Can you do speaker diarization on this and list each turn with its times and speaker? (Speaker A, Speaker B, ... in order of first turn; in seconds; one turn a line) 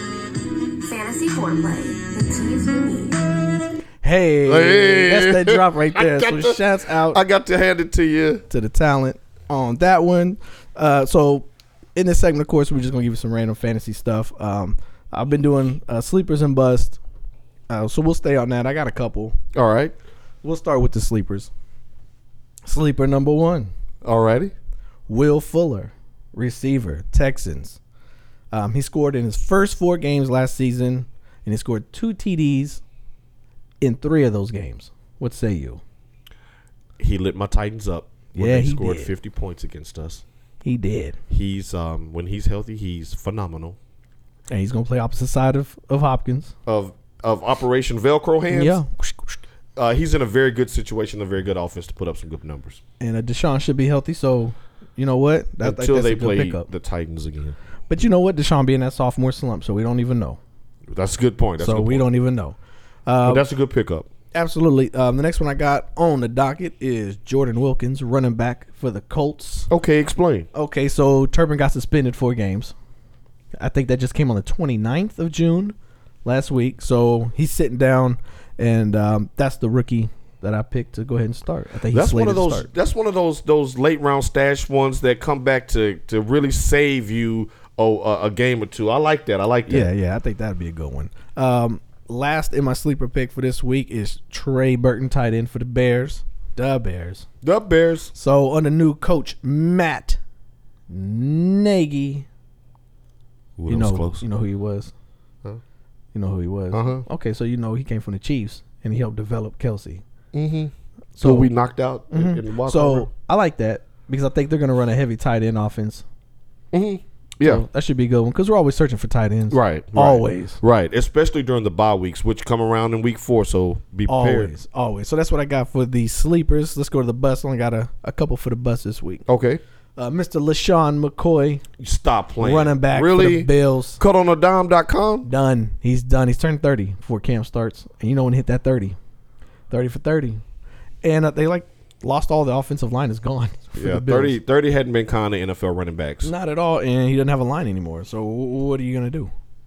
Speaker A: 0.8-3.2
Speaker B: 4.0-7.2
Speaker C: 4.5-8.4
Speaker B: 8.5-17.0
Speaker B: 17.7-19.4
Speaker C: 19.5-19.9
Speaker B: 20.4-21.5
Speaker B: 22.6-23.7
Speaker C: 24.0-24.5
Speaker B: 25.1-27.8
Speaker B: 28.5-32.8
Speaker B: 33.8-35.8
Speaker C: 37.0-40.2
Speaker B: 38.3-39.1
Speaker B: 40.6-41.2
Speaker C: 41.3-43.8
Speaker B: 44.5-46.5
Speaker C: 46.7-48.8
Speaker B: 48.5-49.4
Speaker C: 49.8-52.8
Speaker B: 53.0-56.7
Speaker C: 55.6-57.6
Speaker B: 57.9-60.4
Speaker C: 60.9-62.0
Speaker B: 61.6-62.6
Speaker B: 63.1-63.5
Speaker C: 63.2-64.1
Speaker B: 64.3-69.7
Speaker C: 69.7-70.5
Speaker B: 70.5-72.7
Speaker B: 73.6-82.7
Speaker C: 81.9-89.9
Speaker B: 89.7-97.3
Speaker C: 97.4-98.1
Speaker B: 98.1-100.2
Speaker B: 100.9-102.3
Speaker C: 103.6-104.2
Speaker B: 103.7-104.9
Speaker B: 106.1-110.0
Speaker C: 106.7-107.0
Speaker C: 110.3-113.1
Speaker B: 111.2-111.5
Speaker B: 112.1-116.0
Speaker C: 116.7-117.6
Speaker B: 117.4-120.6
Speaker C: 119.5-124.5
Speaker B: 124.1-129.2
Speaker C: 129.3-129.6
Speaker B: 130.0-131.6
Speaker C: 131.8-135.3
Speaker B: 132.4-134.0
Speaker B: 135.2-139.0
Speaker B: 139.7-140.4
Speaker B: 141.0-144.4
Speaker C: 143.8-146.3
Speaker B: 146.2-149.3